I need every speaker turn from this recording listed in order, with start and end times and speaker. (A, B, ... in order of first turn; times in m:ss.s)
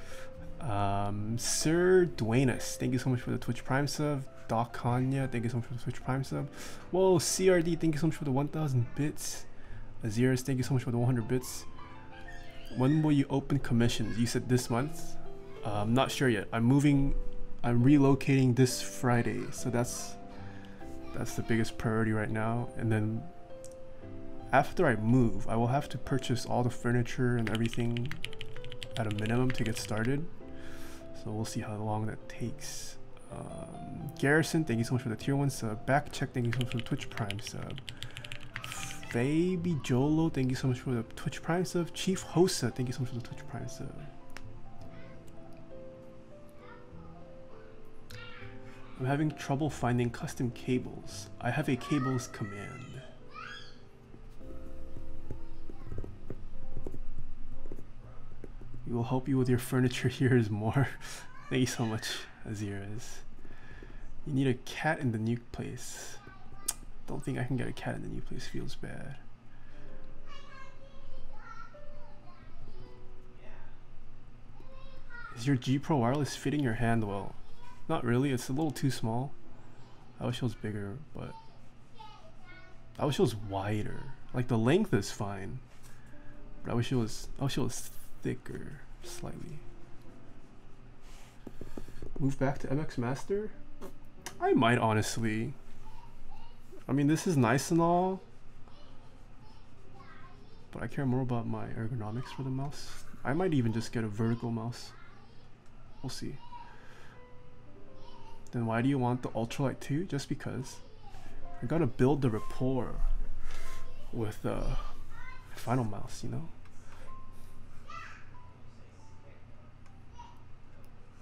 0:00.6-0:09.5 A
0:10.0-0:11.7 A
0:12.7-0:20.2 A
0:21.1-0:23.3 A
0:24.5-0:28.2 A
0:29.0-0:30.3 A
0:31.1-0:37.8 A
0:38.6-0:44.1 A
0:49.0-0:53.1 A
0:58.8-1:03.3 A
1:04.2-1:06.2 A
1:07.1-1:09.2 A
1:15.3-1:19.4 A
1:20.2-1:21.4 A
1:23.0-1:25.6 A
1:26.6-1:29.6 A
1:32.2-1:33.6 A
1:34.4-1:35.6 A
1:36.9-1:38.2 A
1:40.7-1:45.0 A
1:46.0-1:46.4 A
1:48.5-1:50.8 A
1:51.6-1:53.0 A
1:54.1-1:54.9 A
1:55.5-1:56.5 A